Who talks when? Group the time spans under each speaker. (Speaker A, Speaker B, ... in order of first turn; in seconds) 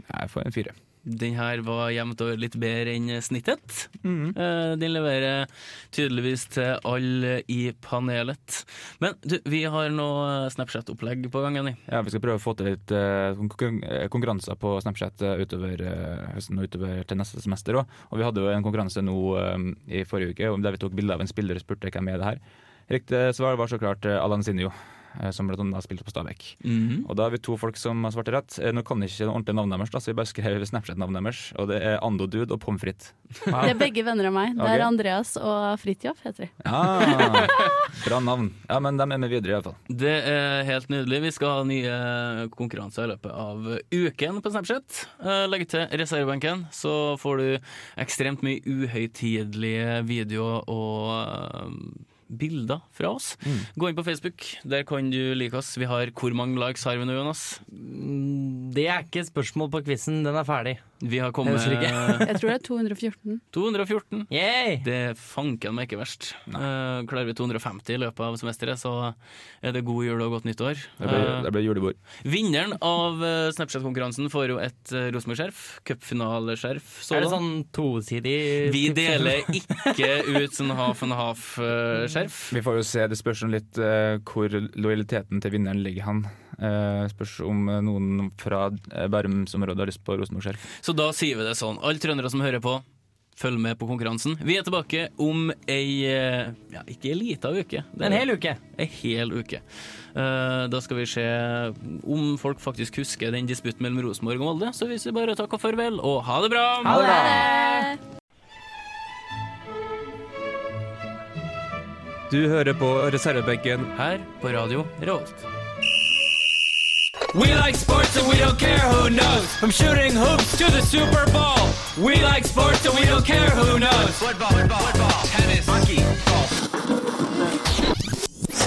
Speaker A: 0.1-0.8, 4.0-4.4, 11.9-33.9, 34.6-34.9, 36.6-39.8, 71.0-72.0, 82.5-90.7, 106.8-107.5, 112.3-113.9
Speaker B: 1.1-11.8, 26.6-27.1, 39.9-57.6, 61.0-62.3, 63.5-71.5, 72.2-77.4, 78.6-82.6, 90.8-92.8, 93.4-99.6, 100.2-107.5, 113.9-115.5, 123.0-123.4
Speaker C: 33.6-37.6, 62.2-63.4, 106.8-108.0
Speaker D: 57.7-60.8, 61.4-62.3, 64.3-64.8, 77.1-80.3, 98.0-98.6, 106.9-107.5
Speaker E: 117.3-119.7, 121.9-123.3, 123.9-126.5